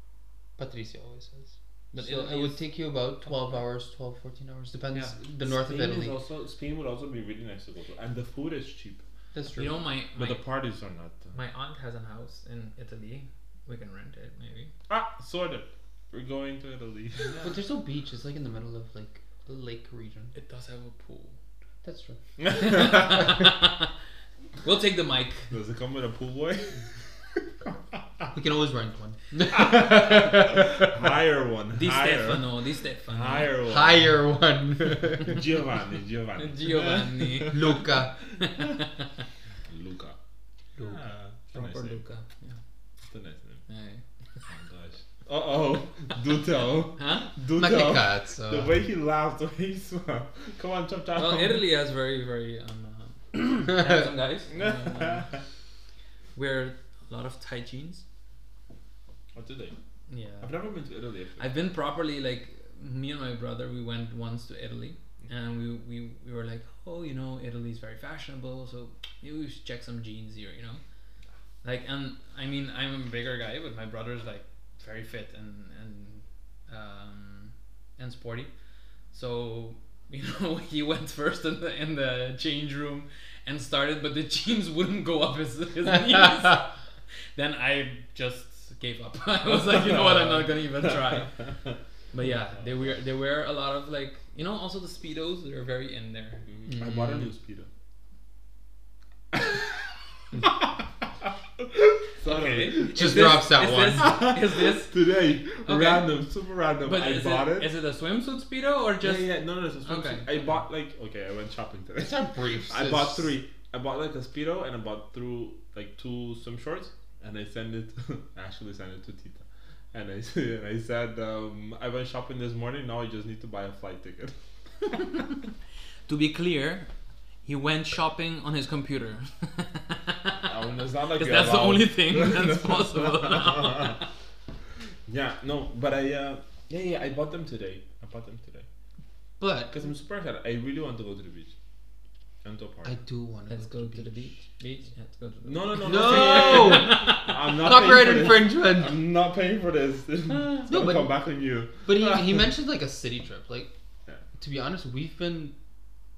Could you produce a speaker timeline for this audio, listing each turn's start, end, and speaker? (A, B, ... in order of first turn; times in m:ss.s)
0:00.6-0:06.2 A
0:01.9-0:02.7 B
0:05.4-0:09.0 C
0:09.3-0:09.8 A
0:09.6-0:10.4 B
0:10.2-0:11.4 C
0:11.3-0:14.7 B
0:14.9-0:17.5 C
0:17.2-0:17.5 B
0:17.4-0:20.3 A
0:20.4-0:21.4 B
0:21.8-0:22.2 A
0:22.4-0:23.4 C
0:22.5-0:23.9 B
0:24.6-0:25.5 B
0:25.5-0:28.3 C
0:28.3-0:31.0 A
0:29.5-0:32.6 C
0:31.7-0:33.5 B
0:33.1-0:34.1 C
0:33.7-0:35.4 A
0:35.2-0:37.9 C
0:36.4-0:37.9 B
0:37.5-0:38.1 A
0:38.4-0:39.3 B
0:39.7-0:40.2 C
0:40.8-0:42.0 C
0:41.5-0:42.6 B
0:43.1-0:43.6 C
0:43.7-0:44.0 B
0:44.4-0:51.7 C
0:47.0-0:47.3 B
0:47.6-0:48.8 A
0:51.2-0:55.3 B
0:54.5-0:55.4 C
0:56.4-0:58.0 B
0:59.4-0:59.8 C
1:00.1-1:00.5 B
1:00.4-1:01.6 C
1:01.4-1:10.8 B
1:11.6-1:18.5 B
1:19.1-1:26.7 B
1:27.4-1:31.4 B
1:29.5-1:31.5 C
1:32.1-1:36.5 B
1:36.5-1:37.7 C
1:36.7-1:37.3 A
1:39.3-1:39.7 C
1:42.0-1:47.7 C
1:42.2-1:44.9 B
1:42.9-1:44.2 A
1:45.6-1:46.1 B
1:46.8-1:49.3 B
1:49.0-2:05.0 C
1:49.9-1:50.6 B
1:52.0-1:53.3 A
2:06.1-2:06.9 B
2:07.4-2:10.4 B
2:10.4-2:14.0 C
2:11.2-2:14.0 B
2:15.1-2:18.7 C
2:19.4-2:19.8 A
2:19.7-2:21.5 C
2:22.4-2:23.0 C
2:22.8-2:24.3 A
2:23.5-2:27.4 B
2:25.4-2:32.5 C
2:25.8-2:29.0 A
2:30.3-2:30.7 B
2:30.7-2:31.1 A
2:31.8-2:33.7 A
2:34.4-2:35.5 A